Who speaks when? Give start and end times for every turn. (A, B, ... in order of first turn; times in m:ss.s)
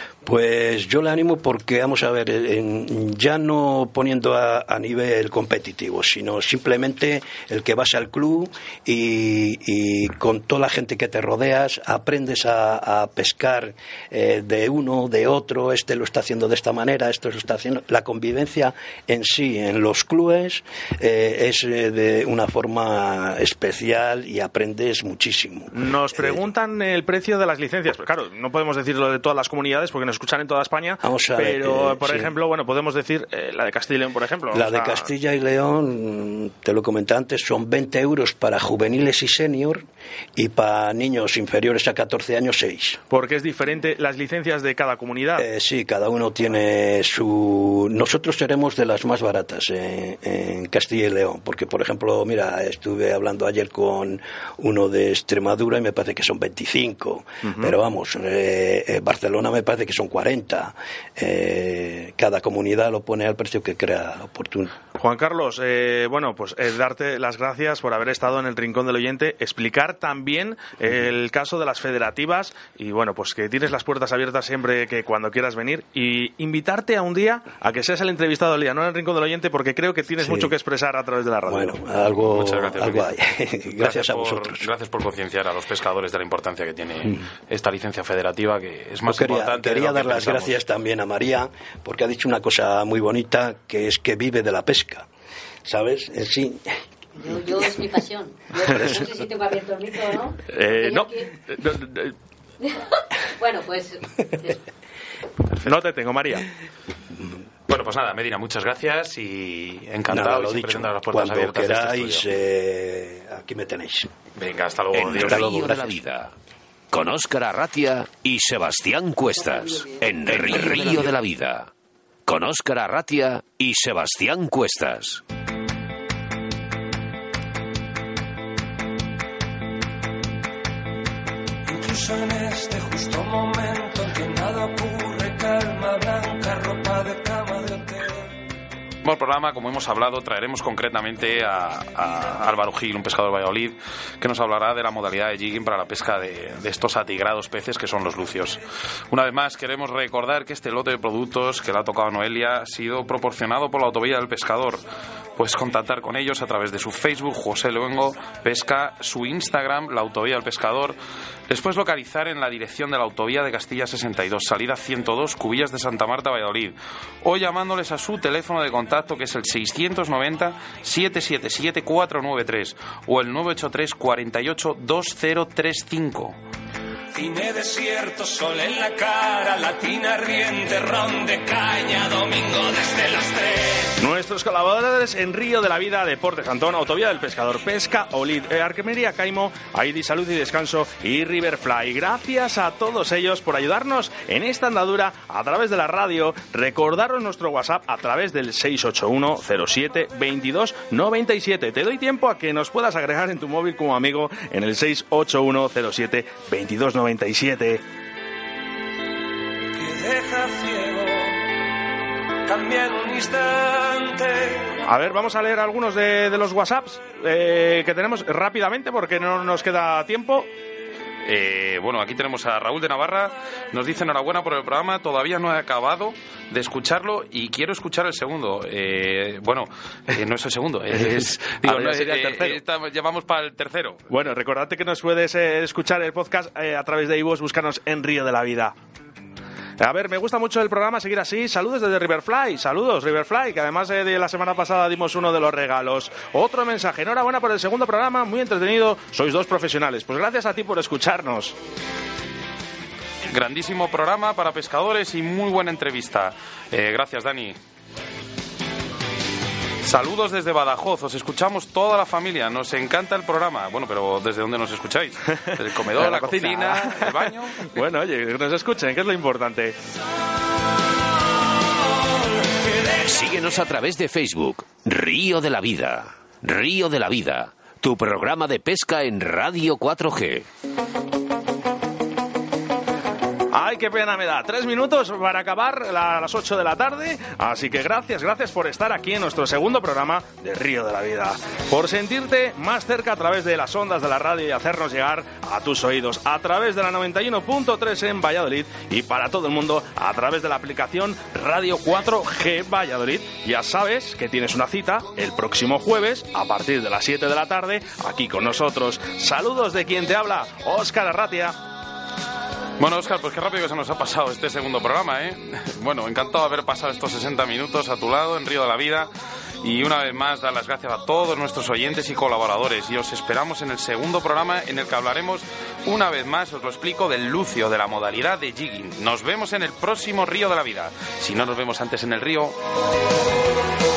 0:00.2-0:26.4 A
0:25.7-0:35.0 B
0:31.0-0:32.3 A
0:34.5-0:43.0 A
0:43.1-0:45.4 B
0:45.4-1:04.8 A
1:05.0-1:21.8 B
1:20.2-1:20.5 A
1:21.5-1:24.7 A
1:22.0-1:23.2 C
1:23.7-1:30.6 C
1:29.0-1:35.1 A
1:35.6-1:36.6 A
1:37.2-1:41.3 D
1:40.5-1:42.2 B
1:42.6-1:44.6 D
1:45.6-1:46.5 B
1:47.7-1:52.4 C
1:50.1-1:54.1 A
1:54.4-1:55.6 C
1:54.9-1:56.4 E
1:55.2-1:56.0 A
1:56.9-2:01.7 E
1:59.6-2:00.0 D
2:00.5-2:00.8 C
2:02.2-2:05.2 E
2:11.6-2:18.3 F
2:19.0-2:34.8 C
2:35.4-2:41.0 C
2:41.5-2:56.4 C
2:57.1-3:04.0 F
3:04.0-3:27.8 B
3:29.8-3:31.4 F
3:32.5-3:34.7 F
3:34.9-3:40.5 B
3:41.2-3:54.0 C
3:51.0-3:52.6 B
3:54.1-3:58.8 B
3:59.8-4:11.6 B
4:13.3-4:17.6 C
4:19.8-4:27.8 C
4:25.5-4:29.8 B
4:32.8-4:40.5 E
4:43.5-5:11.6 B
5:12.8-5:19.1 C
5:19.6-5:32.6 C